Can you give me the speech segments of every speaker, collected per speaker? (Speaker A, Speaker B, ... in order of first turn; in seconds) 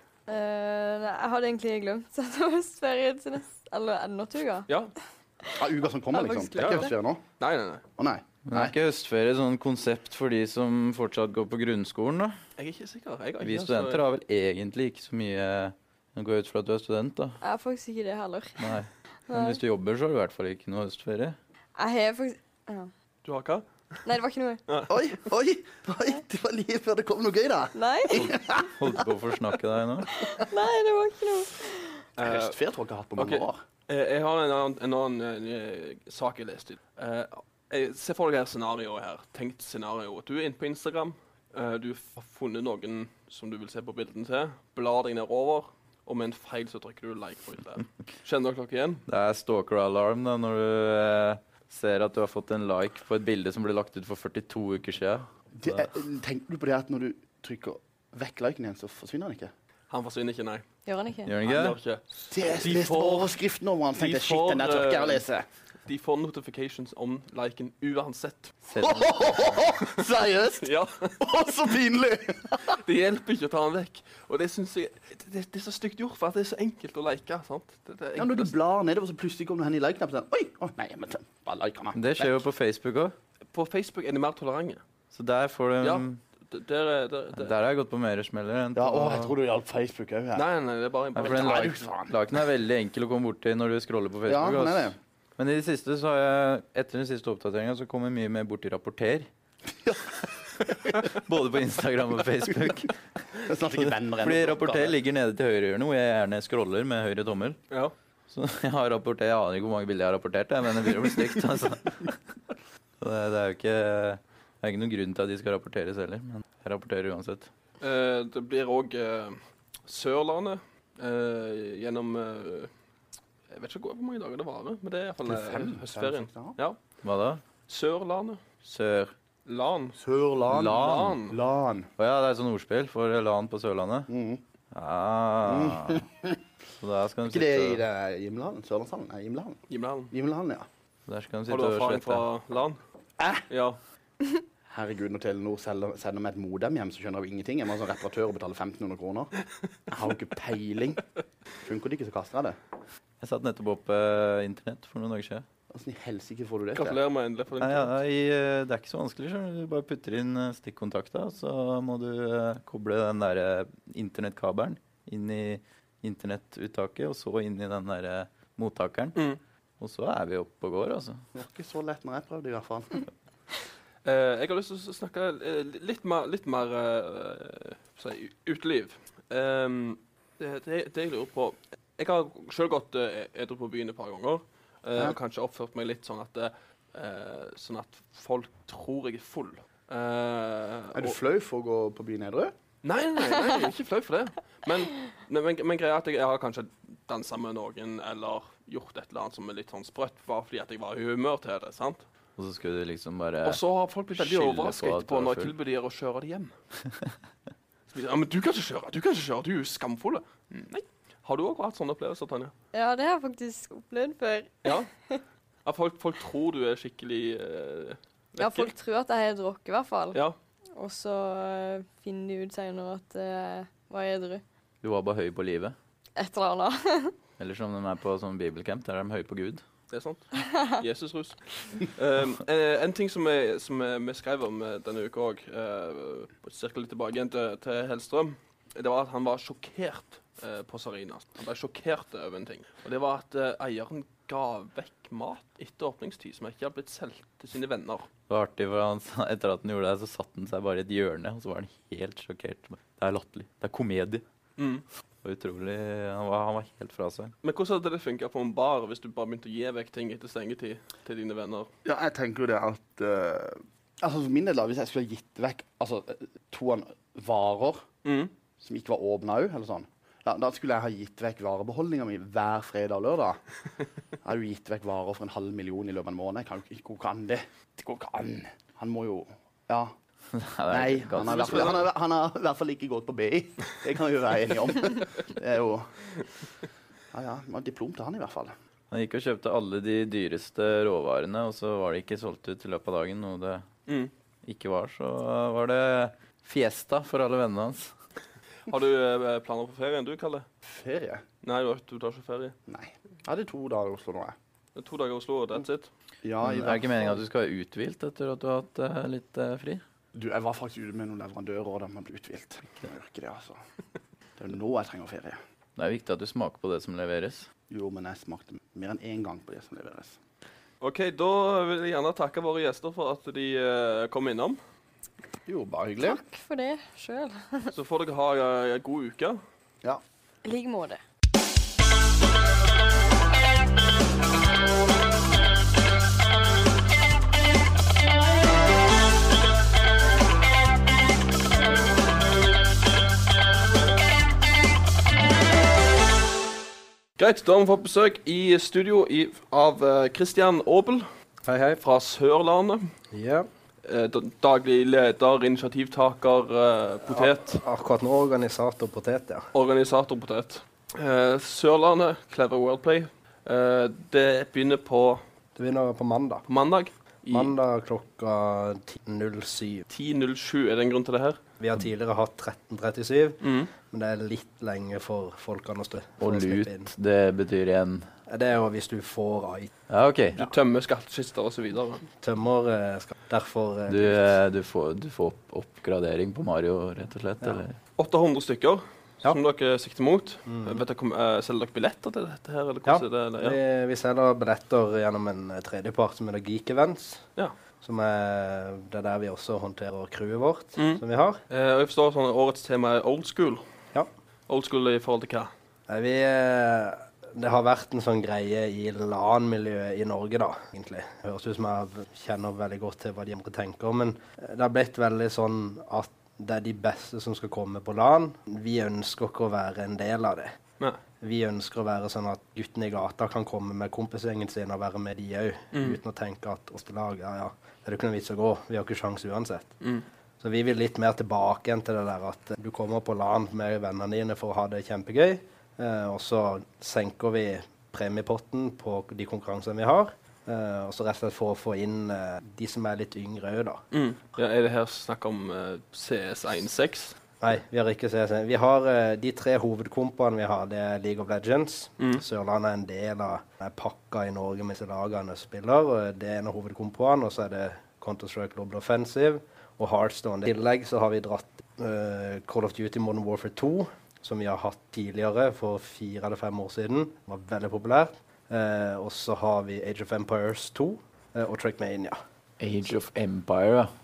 Speaker A: 0.3-4.7, 6.1-6.9, 17.4-18.7, 19.3-19.6, 21.8-22.9, 24.0-24.6, 27.7-28.2, 30.1-32.0, 60.9-61.3, 212.7-215.2, 218.4-220.2, 220.7-224.4, 226.2-227.1, 326.0-327.7, 330.4-331.0
Speaker B: 4.7-4.9, 6.5-7.8, 12.6-14.0, 23.2-23.6, 24.7-24.9, 32.2-32.5, 33.2-49.0, 59.9-60.6, 61.4-63.3, 64.0-65.2, 65.8-68.5, 70.6-71.1, 72.7-78.5, 83.5-84.8, 85.8-87.5, 90.3-91.7, 117.8-122.7, 123.5-126.8, 127.7-128.4, 129.4-130.0, 130.6-131.4, 139.7-140.1, 141.5-142.8, 143.5-143.8, 156.7-157.9, 174.0-191.2, 192.8-202.0, 203.4-206.5, 207.9-212.5, 215.6-218.7, 229.9-248.1, 254.6-254.8, 257.4-261.7, 268.0-268.3, 281.2-281.8, 293.9-294.1, 298.7-300.4, 301.4-302.6, 304.8-305.9, 320.8-324.6, 327.7-329.4, 347.2-351.1, 351.8-352.8, 353.8-357.6, 359.5-365.2, 366.5-367.5, 369.9-371.4, 373.4-373.7, 380.4-382.0, 388.0-393.6, 400.8-403.6, 404.5-405.5, 443.9-447.2
Speaker C: 5.5-7.2, 8.0-8.7, 24.9-28.9, 32.2-33.6, 55.5-59.5, 62.3-65.4, 68.8-72.8, 78.2-82.4, 88.7-90.5, 91.2-92.1, 94.3-95.0, 99.8-101.0, 103.4-104.9, 125.2-126.5, 130.0-131.9, 134.1-134.4, 135.4-136.4, 137.3-139.6, 140.1-140.7, 143.2-143.4, 144.7-149.3, 149.9-151.0, 151.6-152.6, 155.7-157.0, 171.3-173.1, 190.9-192.5, 261.8-267.8, 268.6-273.4, 274.2-279.9, 280.7-285.9, 287.1-288.5, 300.6-301.2, 302.7-304.3, 306.2-307.2, 310.1-313.6, 314.4-315.4, 317.7-320.2, 325.4-326.2
Speaker D: 8.5-12.3, 13.4-17.4, 18.6-21.4, 28.1-30.1, 49.1-55.8, 61.2-61.8, 68.7-69.6, 81.9-83.1, 85.1-86.2, 87.3-89.3, 91.1-99.3, 101.0-102.9, 103.7-107.6, 108.3-112.2, 113.0-117.5, 127.0-127.4, 128.6-129.1, 130.5-131.1, 132.0-134.1, 134.7-136.1, 136.8-137.8, 141.1-142.2, 153.2-155.4, 157.6-169.2, 169.8-171.2, 202.4-203.6, 204.1-205.5, 224.8-225.7, 227.4-229.6, 248.3-254.2, 255.2-257.3, 280.3-281.9, 288.9-293.7, 294.4-297.9, 306.4-309.8, 315.8-317.5, 376.2-378.1, 379.9-380.4, 383.9-387.8, 472.6-473.9
Speaker E: 351.4-351.8, 353.1-353.5, 357.1-359.5, 365.6-366.4, 367.3-369.8, 371.6-376.9, 378.3-379.7, 382.2-384.3, 390.4-390.8, 392.9-397.3, 397.8-401.4, 405.9-420.5, 421.2-429.8, 430.4-443.8, 447.4-472.2